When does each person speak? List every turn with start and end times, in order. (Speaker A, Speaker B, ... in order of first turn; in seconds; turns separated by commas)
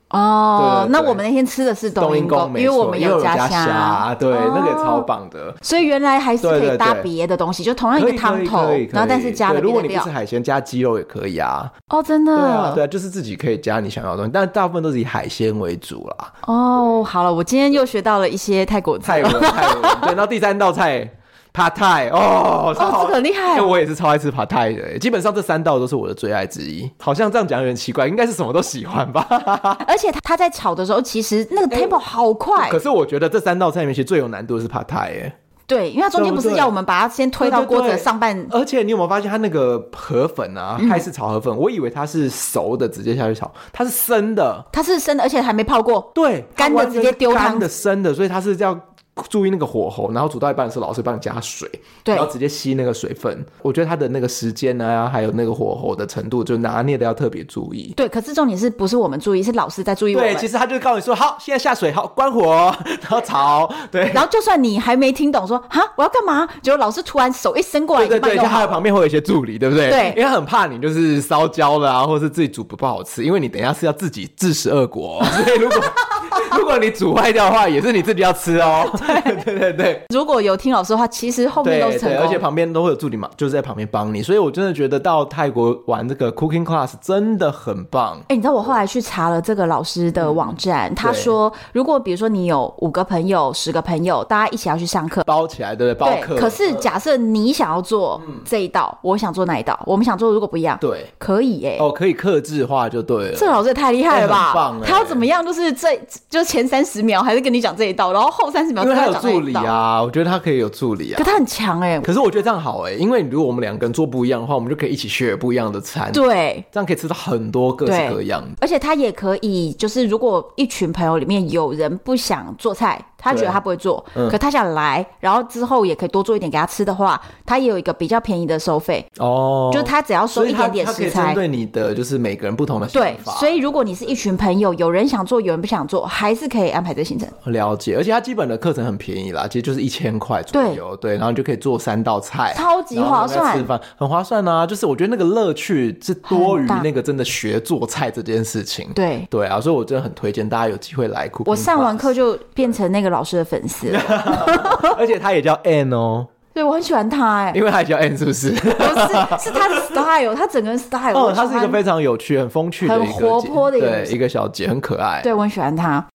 Speaker A: 0.1-5.1, Speaker B: 0.6-1.2, Speaker B: 2.0-5.6, Speaker A: 5.6-10.1, Speaker B: 6.4-7.1, Speaker B: 8.0-11.7, Speaker A: 11.9-12.8, Speaker B: 12.3-16.3, Speaker A: 16.4-20.1, Speaker B: 19.0-29.9, Speaker A: 22.8-23.7, Speaker A: 29.8-32.8, Speaker B: 31.7-32.0, Speaker B: 32.6-35.3, Speaker A: 35.7-38.5, Speaker B: 36.1-36.7, Speaker B: 37.4-44.7, Speaker A: 40.8-41.0, Speaker A: 44.7-47.7, Speaker B: 46.1-58.0, Speaker A: 52.0-52.3, Speaker A: 58.0-60.5, Speaker B: 60.1-64.2, Speaker A: 64.1-68.8, Speaker B: 68.0-80.0, Speaker A: 69.9-70.2, Speaker A: 75.3-76.4, Speaker A: 78.8-79.4, Speaker A: 80.1-82.4, Speaker B: 81.6-88.3, Speaker A: 88.3-95.3, Speaker B: 90.2-91.3, Speaker B: 95.3-96.9, Speaker A: 96.0-101.9, Speaker B: 100.8-101.1, Speaker B: 101.8-105.3, Speaker A: 103.3-109.8, Speaker B: 108.8-111.4, Speaker A: 111.2-112.1, Speaker B: 112.0-118.6, Speaker A: 116.1-116.7, Speaker A: 117.9-129.1, Speaker B: 123.3-123.6, Speaker B: 129.2-133.6, Speaker A: 129.7-131.4, Speaker A: 132.9-137.3, Speaker B: 137.4-152.1, Speaker A: 140.5-140.8, Speaker A: 142.5-143.7, Speaker A: 146.3-146.9, Speaker A: 148.9-149.3, Speaker A: 151.5-155.0, Speaker B: 153.9-156.3, Speaker A: 156.6-157.6, Speaker B: 157.5-160.0, Speaker A: 158.7-161.8, Speaker B: 161.1-165.3, Speaker A: 162.8-164.2, Speaker A: 165.2-166.1